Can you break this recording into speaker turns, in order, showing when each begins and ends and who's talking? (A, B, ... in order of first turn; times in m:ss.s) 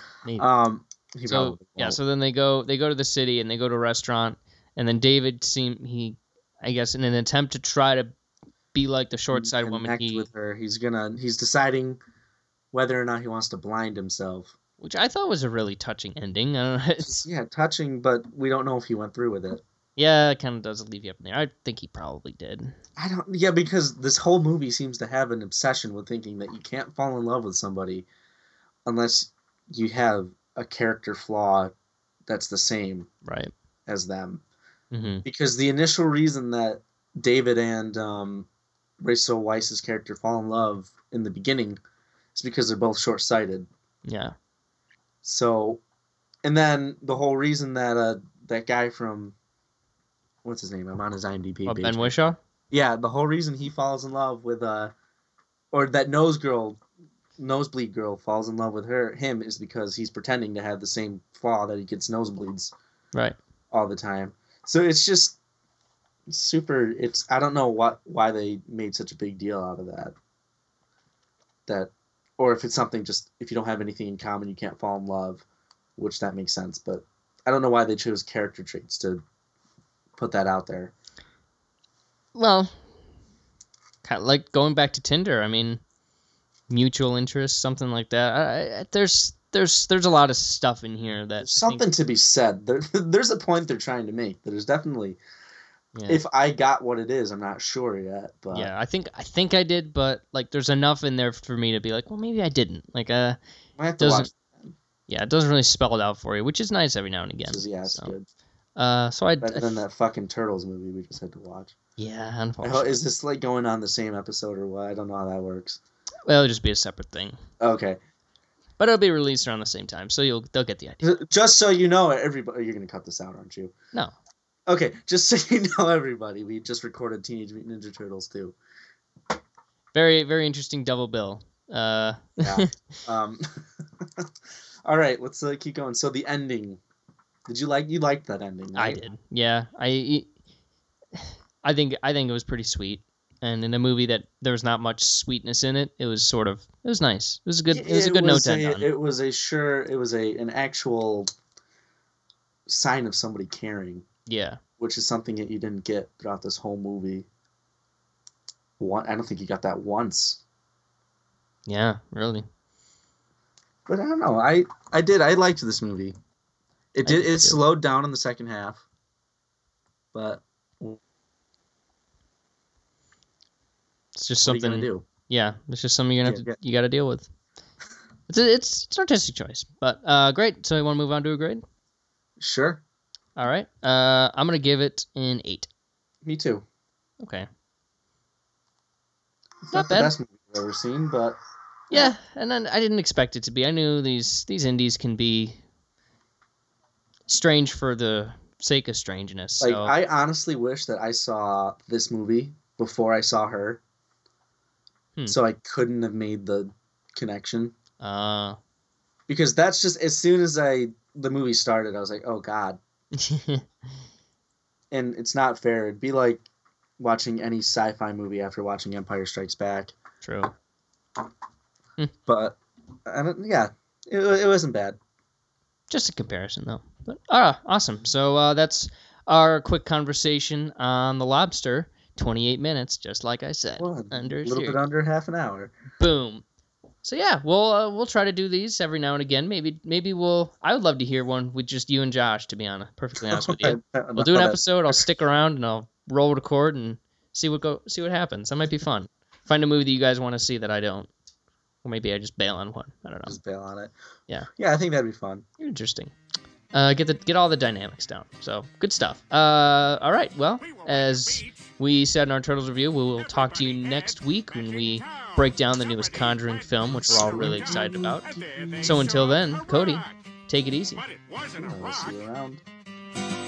0:00.4-0:02.0 A
0:01.3-0:08.1 B
0:08.7-0:10.3 B
0:09.3-0:12.0 A
0:12.7-0:14.5 A
0:14.8-0:17.2 B
0:17.0-0:19.6 A
0:20.0-0:22.7 B
0:23.0-0:28.1 A
0:28.8-0:31.7 A
0:32.3-0:33.1 A
0:33.2-0:33.5 B
0:33.9-0:34.4 A
0:34.9-0:35.2 B
0:35.2-0:38.5 A
0:39.0-0:41.8 A
0:42.3-0:43.7 A
0:44.0-0:44.3 B
0:45.2-0:45.8 A
0:46.4-0:49.4 A
0:50.4-0:52.2 A
0:51.6-0:52.4 B
0:52.7-0:54.9 A
0:55.7-0:56.8 A
0:57.4-1:02.7 A
1:03.7-1:05.4 A
1:06.3-1:10.1 A
1:11.7-1:15.4 A
1:16.0-1:19.2 A
1:20.2-1:20.9 A
1:22.3-1:22.7 B
1:24.0-1:25.8 B
1:26.7-1:31.8 B
1:31.4-1:35.2 A
1:35.9-1:36.2 B
1:36.1-1:38.7 A
1:38.5-1:43.4 B
1:43.8-1:44.7 A
1:44.0-1:44.3 B
1:45.1-1:48.1 B
1:47.5-1:48.3 A
1:48.8-1:49.7 B
1:49.4-1:51.7 A
1:52.0-1:53.0 B
1:52.6-1:55.8 A
1:56.2-1:57.4 B
1:57.6-1:58.0 A
1:58.8-2:01.1 B
2:01.0-2:03.7 A
2:04.7-2:08.6 A
2:09.9-2:13.0 B
2:12.4-2:14.3 A
2:14.8-2:16.8 A
2:17.5-2:19.0 A
2:18.8-2:20.3 B
2:21.1-2:28.8 B
2:27.7-2:31.3 A
2:32.7-2:34.0 A
2:34.3-2:34.6 B
2:34.8-2:37.3 A
2:38.8-2:40.4 A
2:41.6-2:42.4 B
2:43.9-2:46.1 A
2:46.9-2:48.8 A
2:47.0-2:47.6 B
2:50.1-2:51.0 A
2:54.1-2:57.3 B
2:54.4-2:55.0 A
2:56.2-2:56.5 A
2:58.3-3:01.6 B
3:02.4-3:02.8 A
3:03.4-3:05.7 B
3:06.2-3:06.6 A
3:07.2-3:07.5 B
3:09.7-3:11.4 A
3:09.7-3:10.1 B
3:11.9-3:15.6 B
3:17.3-3:19.9 B
3:19.6-3:23.8 A
3:25.3-3:27.7 A
3:28.0-3:28.6 B
3:29.3-3:32.8 A
3:33.1-3:33.6 B
3:34.9-3:36.4 A
3:37.0-3:39.9 A
3:40.2-3:40.5 B
3:42.3-3:45.0 A
3:45.9-3:54.8 B
3:53.8-3:55.7 A
3:56.0-3:56.4 B
3:57.0-4:11.1 B
4:03.2-4:05.0 A
4:11.8-4:13.4 B
4:13.2-4:13.9 A
4:14.6-4:15.4 A
4:15.6-4:16.1 B
4:16.7-4:28.3 B
4:20.6-4:21.6 C
4:23.2-4:30.2 C
4:27.0-4:29.0 A
4:28.8-4:31.0 B
4:31.0-4:32.1 C
4:31.6-4:32.6 A